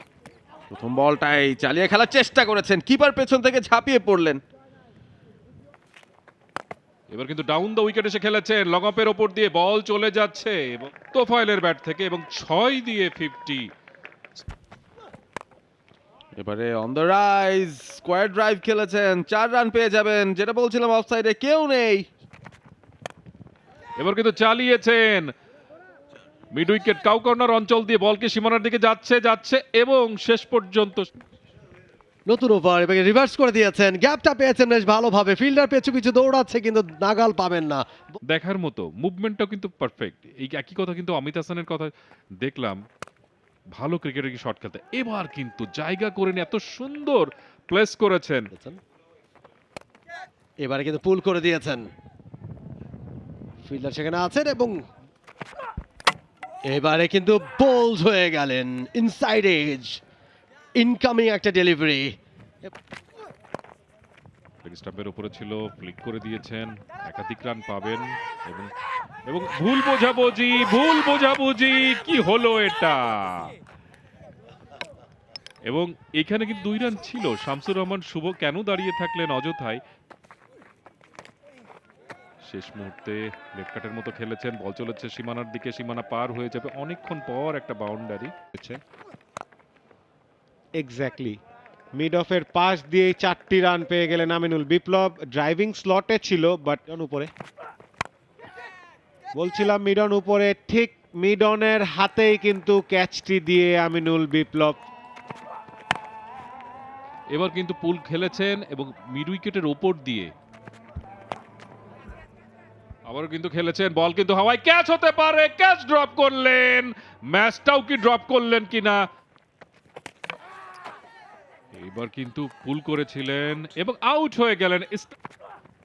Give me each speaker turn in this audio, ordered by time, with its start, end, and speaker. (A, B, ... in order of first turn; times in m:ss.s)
0:00.7-0:04.4 A
0:07.1-0:13.7 B
0:16.4-0:22.1 A
0:24.0-0:25.3 B
0:26.5-0:31.1 B
0:32.3-0:38.1 C
0:38.2-0:42.8 B
0:43.8-0:48.5 B
0:48.5-0:48.8 C
0:50.6-0:51.9 C
0:53.6-0:54.8 C
0:56.7-1:00.0 C
1:00.8-1:02.1 C
1:04.6-1:08.7 B
1:09.2-1:13.5 B
1:15.6-1:19.8 B
1:22.4-1:28.3 B
1:28.5-1:28.8 D
1:30.8-1:31.4 D
1:32.0-1:37.3 D
1:39.4-1:44.8 D
1:47.3-1:50.3 B
1:53.1-1:59.0 B
2:01.8-2:05.1 B